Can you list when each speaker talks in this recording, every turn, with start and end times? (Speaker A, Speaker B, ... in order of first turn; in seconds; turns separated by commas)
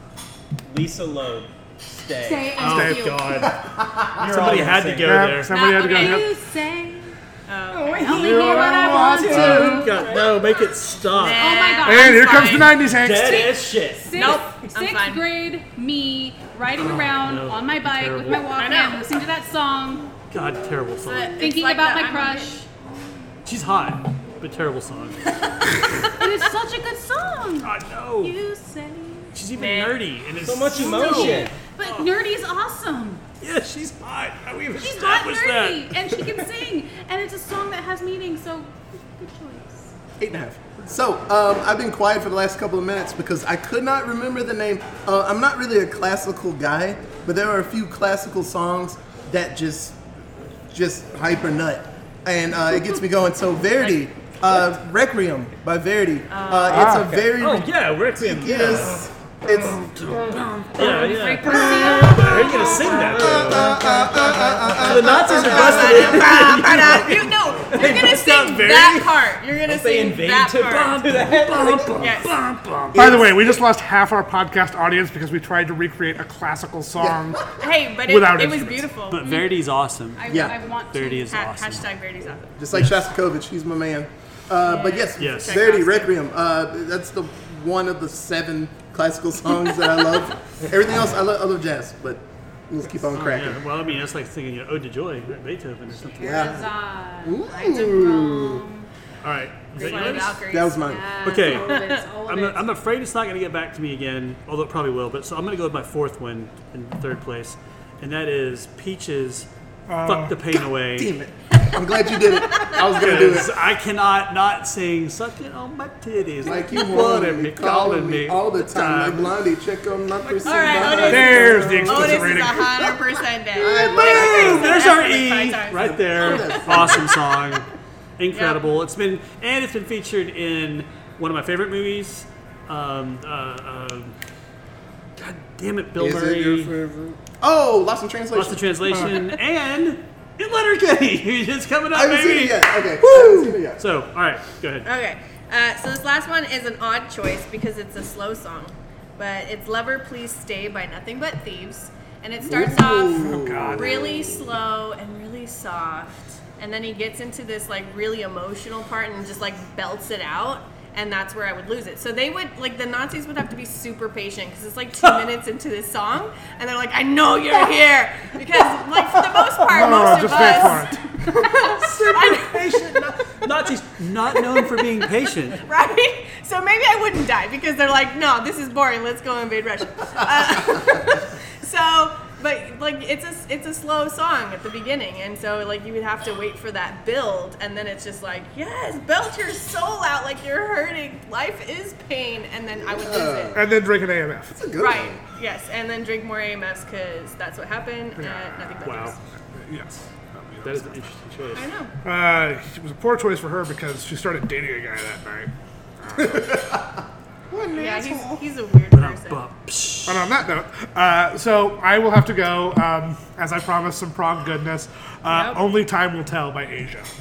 Speaker A: 0.6-2.7, Speaker B: 2.1-3.5, Speaker C: 2.6-3.6, Speaker D: 2.7-3.0, Speaker E: 3.4-4.3, Speaker A: 4.2-5.3, Speaker C: 4.2-5.5, Speaker D: 5.0-6.3, Speaker F: 5.5-6.3, Speaker B: 5.5-7.2, Speaker F: 7.5-8.7, Speaker A: 7.7-10.5, Speaker B: 8.0-10.1, Speaker D: 8.1-9.9, Speaker C: 9.2-11.6, Speaker F: 11.1-12.8, Speaker B: 11.3-20.1, Speaker D: 11.8-13.5, Speaker A: 12.9-14.4, Speaker F: 14.1-15.2, Speaker C: 16.8-18.6, Speaker F: 18.6-19.0, Speaker C: 20.3-21.4, Speaker F: 21.0-22.6, Speaker B: 21.3-22.6, Speaker C: 23.4-25.9, Speaker B: 26.2-29.4, Speaker C: 27.6-28.4, Speaker C: 29.3-32.1, Speaker F: 29.5-30.1, Speaker A: 30.4-31.5, Speaker B: 30.7-33.2, Speaker C: 33.4-36.5, Speaker B: 34.7-39.9, Speaker E: 40.2-50.0, Speaker E: 50.7-59.8, Speaker F: 56.3-56.9, Speaker D: 56.7-57.1, Speaker A: 56.8-57.4, Speaker C: 57.3-64.0, Speaker B: 60.8-63.6, Speaker A: 62.9-66.9, Speaker E: 63.1-66.4, Speaker C: 64.6-69.2, Speaker F: 65.2-71.0, Speaker A: 67.7-68.2, Speaker A: 69.6-72.2, Speaker C: 70.9-73.3, Speaker F: 72.0-72.3, Speaker E: 72.9-73.3, Speaker D: 72.9-78.9, Speaker E: 77.0-77.3, Speaker F: 77.6-79.3, Speaker C: 79.1-81.8, Speaker B: 79.2-79.6, Speaker B: 80.1-81.4, Speaker E: 80.3-80.6, Speaker F: 81.2-82.5, Speaker E: 82.5-93.7, Speaker C: 82.7-83.0, Speaker F: 84.6-86.1, Speaker C: 85.2-85.6, Speaker C: 93.1-96.7, Speaker B: 95.9-98.9, Speaker E: 96.2-96.7, Speaker E: 97.2-98.7, Speaker C: 99.2-100.4, Speaker F: 99.8-102.0, Speaker B: 99.8-102.7, Speaker E: 100.5-101.0, Speaker C: 101.2-109.5, Speaker D: 109.9-110.4, Speaker C: 110.0-111.1, Speaker E: 111.0-113.6, Speaker C: 112.8-119.3, Speaker E: 116.4-122.9, Speaker C: 120.3-121.1, Speaker F: 120.4-127.2, Speaker D: 121.0-122.8, Speaker E: 123.5-125.0, Speaker C: 123.8-127.7, Speaker E: 125.8-127.1, Speaker C: 128.2-134.1, Speaker F: 128.3-128.6, Speaker C: 135.2-136.7, Speaker E: 136.0-138.7, Speaker C: 138.3-144.9, Speaker E: 141.9-143.8, Speaker F: 144.8-172.9, Speaker E: 152.4-154.3, Speaker D: 153.2-154.1, Speaker D: 169.7-171.1, Speaker C: 169.7-170.7, Speaker C: 171.5-175.6, Speaker F: 175.6-193.6, Speaker E: 192.9-193.7, Speaker D: 193.5-194.6, Speaker E: 194.5-195.2, Speaker F: 194.8-199.2, Speaker D: 198.2-198.7, Speaker C: 198.8-199.1, Speaker D: 199.5-200.9, Speaker C: 200.6-201.7, Speaker F: 201.5-201.9, Speaker D: 202.0-205.5, Speaker D: 206.0-206.7, Speaker E: 206.2-206.8, Speaker E: 207.5-208.4, Speaker F: 207.7-209.4, Speaker C: 208.9-210.3, Speaker D: 210.1-217.1, Speaker F: 215.3-215.6